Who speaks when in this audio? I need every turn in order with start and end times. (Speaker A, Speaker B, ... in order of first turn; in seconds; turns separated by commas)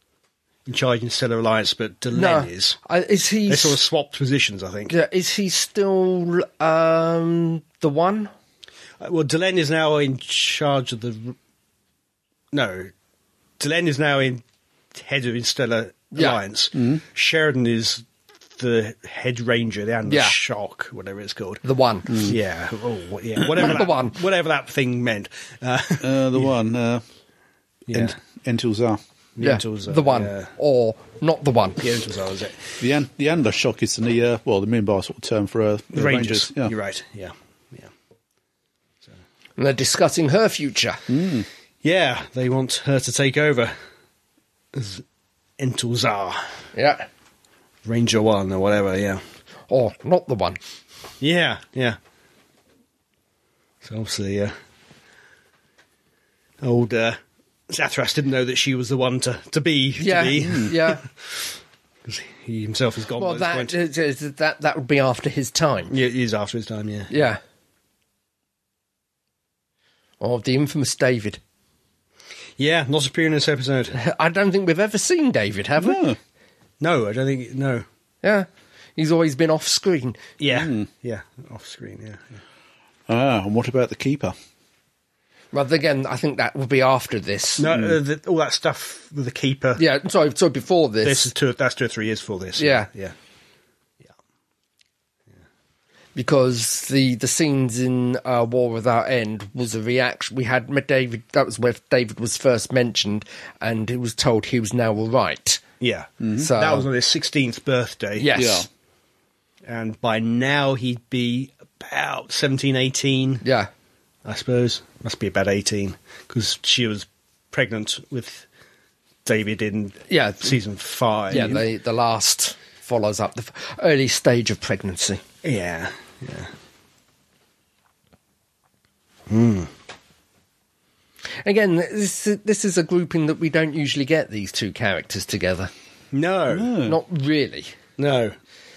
Speaker A: 0.7-2.8, Speaker B: 2.1-3.8, Speaker A: 3.5-4.9, Speaker B: 4.9-8.3, Speaker A: 9.0-11.3, Speaker A: 12.5-12.9, Speaker A: 13.6-14.4, Speaker A: 14.9-18.1, Speaker A: 18.6-21.6, Speaker B: 20.1-20.4, Speaker B: 21.6-22.4, Speaker C: 22.1-22.3, Speaker A: 22.2-26.5, Speaker B: 23.6-24.2, Speaker C: 26.0-27.0, Speaker A: 27.9-28.1, Speaker C: 27.9-29.0, Speaker A: 29.4-30.5, Speaker B: 29.4-31.9, Speaker A: 31.8-32.7, Speaker C: 32.8-36.7, Speaker A: 35.9-37.9, Speaker B: 39.6-41.0, Speaker C: 41.1-41.5, Speaker A: 41.8-43.8, Speaker A: 44.7-45.0, Speaker A: 45.6-46.5, Speaker B: 46.8-47.1, Speaker A: 47.9-49.2, Speaker B: 49.7-50.6, Speaker A: 51.2-52.0, Speaker A: 53.8-54.5, Speaker A: 56.6-57.2, Speaker A: 57.7-61.4, Speaker B: 60.0-61.0, Speaker A: 62.0-63.8, Speaker B: 63.2-65.9, Speaker A: 65.9-67.1, Speaker B: 67.1-67.4, Speaker B: 70.2-71.4, Speaker A: 72.6-74.0, Speaker B: 74.0-76.0, Speaker C: 75.8-76.2, Speaker A: 76.8-77.9, Speaker B: 78.2-80.2, Speaker A: 80.4-82.4, Speaker C: 80.5-80.9, Speaker C: 83.1-84.3, Speaker B: 85.5-87.7, Speaker A: 87.6-89.8, Speaker B: 89.8-91.3, Speaker A: 91.0-93.1, Speaker B: 92.6-92.9, Speaker B: 96.2-105.6, Speaker A: 105.8-108.3, Speaker C: 106.2-106.5, Speaker B: 106.4-106.9, Speaker B: 108.2-108.7, Speaker C: 108.3-108.7, Speaker A: 109.7-113.4, Speaker B: 113.4-113.7, Speaker A: 114.2-118.5, Speaker A: 119.2-121.7, Speaker B: 120.1-120.5, Speaker B: 121.3-125.2, Speaker A: 125.4-126.5, Speaker A: 129.3-129.7, Speaker B: 131.4-135.7, Speaker A: 136.1-136.7, Speaker C: 136.5-137.0, Speaker B: 136.8-137.7, Speaker A: 138.0-138.4